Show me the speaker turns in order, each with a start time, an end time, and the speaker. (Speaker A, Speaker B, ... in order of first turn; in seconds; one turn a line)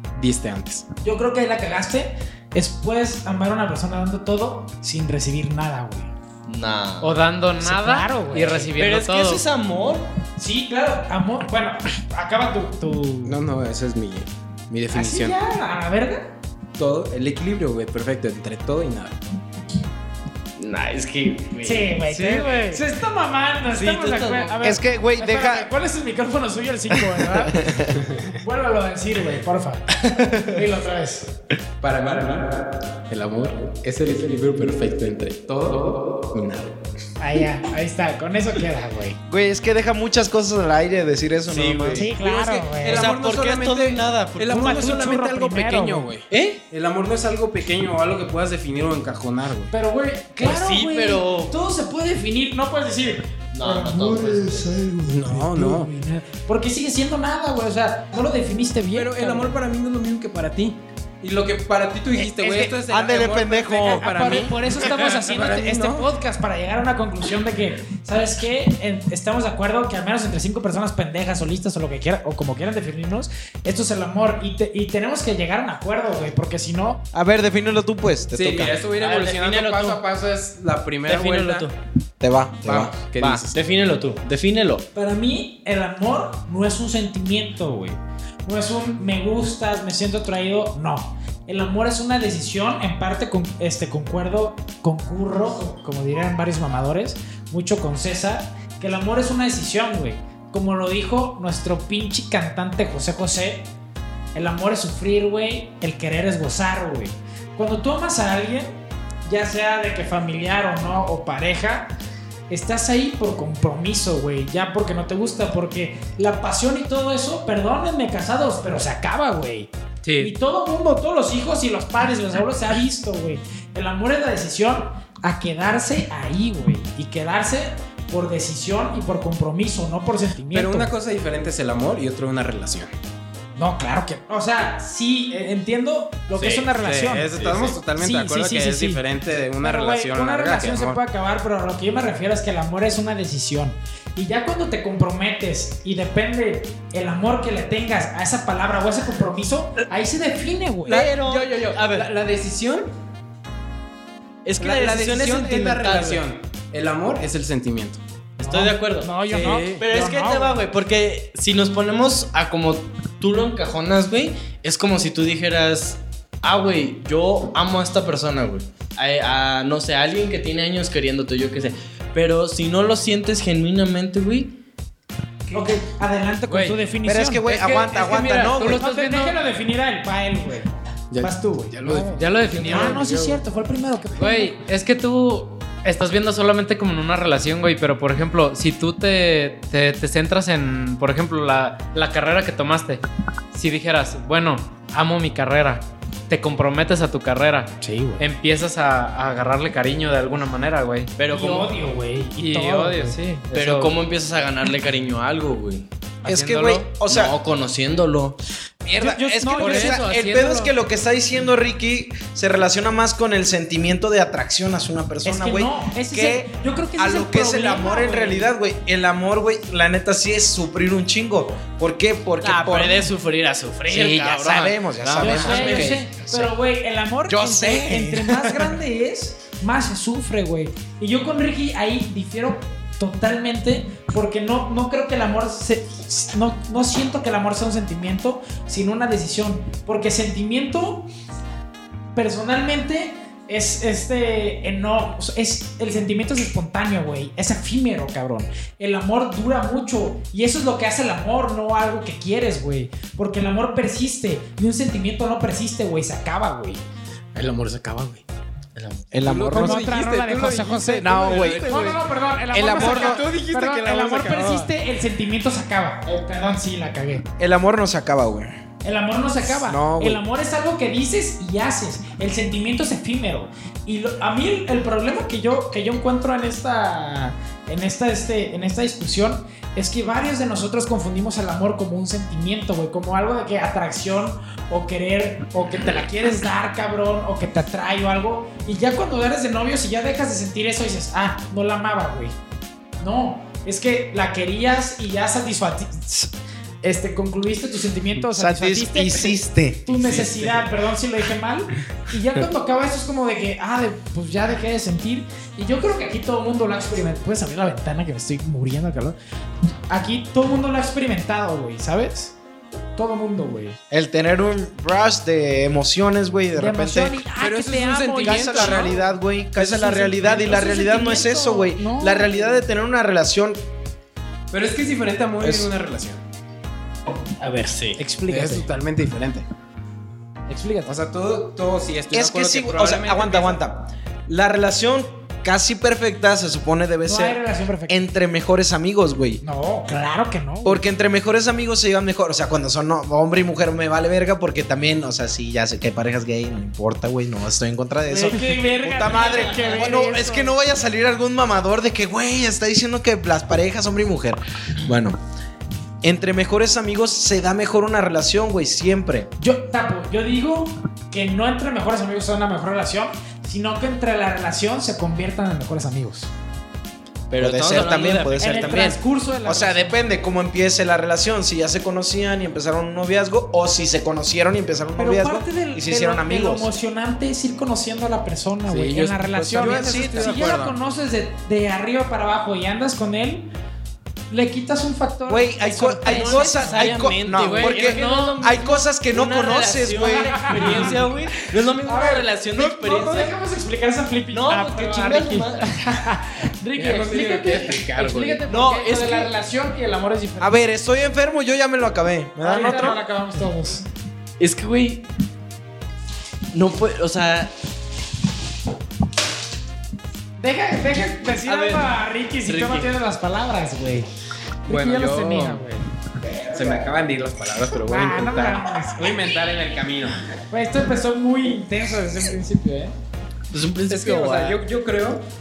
Speaker A: 0.1-0.8
Speaker B: 1.0-6.1
Speaker C: 6.5-7.2
Speaker D: 7.0-9.4
Speaker B: 7.6-8.7
Speaker C: 8.8-10.1
Speaker B: 10.4-13.4
Speaker A: 13.2-15.4
Speaker B: 14.9-16.3
Speaker A: 16.8-19.2
Speaker C: 20.6-22.8
Speaker B: 21.6-31.3
Speaker C: 23.7-24.6
Speaker E: 24.6-25.7
Speaker E: 27.2-27.9
Speaker A: 31.8-36.7
Speaker B: 37.2-39.2
Speaker E: 39.3-42.1
Speaker C: 41.5-44.9
Speaker B: 41.9-43.1
Speaker A: 42.0-49.7
Speaker B: 44.5-46.1
Speaker C: 46.3-46.6
Speaker B: 49.7-59.6
Speaker C: 50.4-51.5
Speaker C: 53.5-54.8
Speaker A: 55.0-55.9
Speaker A: 58.9-66.1
Speaker E: 62.3-64.5
Speaker B: 63.8-77.0
Speaker E: 77.1-78.7
Speaker A: 78.3-81.7
Speaker C: 79.0-80.0
Speaker C: 81.0-81.7
Speaker E: 82.2-82.9
Speaker A: 82.6-83.6
Speaker C: 83.2-84.9
Speaker B: 84.9-103.7
Speaker B: 104.3-111.9
Speaker B: 112.5-130.9
Speaker D: 120.0-120.3
Speaker A: 130.5-132.9
Speaker B: 133.6-137.3
Speaker A: 136.5-141.0
Speaker C: 137.3-137.8
Speaker B: 137.9-139.0
Speaker B: 139.6-151.1
Speaker C: 150.9-152.1
Speaker A: 150.9-152.9
Speaker C: 154.4-156.2
Speaker A: 154.6-158.0
Speaker B: 158.4-160.6
Speaker C: 158.4-174.6
Speaker A: 159.3-159.8
Speaker B: 175.5-177.4
Speaker D: 176.5-176.8
Speaker E: 177.0-178.8
Speaker D: 177.4-179.4
Speaker B: 178.7-184.6
Speaker A: 181.1-183.4
Speaker D: 182.1-183.1
Speaker D: 184.2-201.1
Speaker B: 197.8-198.2
Speaker C: 201.2-201.7
Speaker B: 201.3-203.4
Speaker D: 202.4-203.9
Speaker C: 203.5-205.9
Speaker D: 206.2-206.9
Speaker E: 206.2-207.3
Speaker C: 207.1-208.4
Speaker E: 208.8-223.1
Speaker B: 209.0-210.0
Speaker D: 209.6-210.8
Speaker B: 215.2-218.5
Speaker C: 222.4-226.0
Speaker D: 223.9-224.4
Speaker E: 224.2-226.5
Speaker B: 225.2-241.1
Speaker E: 227.3-228.8
Speaker B: 242.1-256.8
Speaker A: 257.3-258.2
Speaker C: 258.7-259.2
Speaker E: 259.1-259.9
Speaker A: 259.2-262.0
Speaker B: 259.5-267.3
Speaker E: 261.0-261.6
Speaker E: 262.5-263.2
Speaker A: 262.6-264.7
Speaker E: 267.4-268.6
Speaker B: 268.8-292.3
Speaker E: 269.5-270.2
Speaker B: 293.0-296.3
Speaker B: 296.8-309.2
Speaker E: 298.2-299.9
Speaker A: 299.9-300.7
Speaker B: 309.9-312.3
Speaker B: 312.9-313.8
Speaker E: 313.9-317.2
Speaker B: 316.5-322.6
Speaker A: 317.3-319.0
Speaker E: 318.2-323.6
Speaker A: 324.5-326.2
Speaker B: 327.4-328.7
Speaker C: 327.7-328.0
Speaker A: 328.3-329.5
Speaker B: 330.5-330.9
Speaker A: 330.9-333.6
Speaker E: 332.1-339.4
Speaker B: 337.0-338.0
Speaker B: 339.4-340.8
Speaker E: 340.6-355.2
Speaker B: 348.1-350.5
Speaker E: 356.0-359.3
Speaker B: 359.4-366.3
Speaker C: 367.3-369.0
Speaker E: 367.4-376.7
Speaker B: 368.4-370.0
Speaker B: 375.0-383.5
Speaker A: 378.6-380.8
Speaker E: 379.6-380.4
Speaker B: 384.3-387.1
Speaker E: 385.3-391.0
Speaker C: 386.1-393.3
Speaker D: 387.3-388.6
Speaker B: 390.5-391.0
Speaker B: 391.8-400.6
Speaker C: 394.3-395.7
Speaker A: 396.7-398.4
Speaker C: 398.5-399.3
Speaker E: 400.4-403.0
Speaker B: 402.4-403.9
Speaker C: 404.4-405.1
Speaker C: 406.5-407.5
Speaker B: 410.4-414.1
Speaker C: 411.4-411.9
Speaker C: 412.4-412.9
Speaker B: 414.6-415.9
Speaker A: 414.7-415.6
Speaker A: 416.5-420.2
Speaker B: 417.9-419.1
Speaker B: 420.5-422.9
Speaker C: 423.5-424.6
Speaker A: 423.9-425.2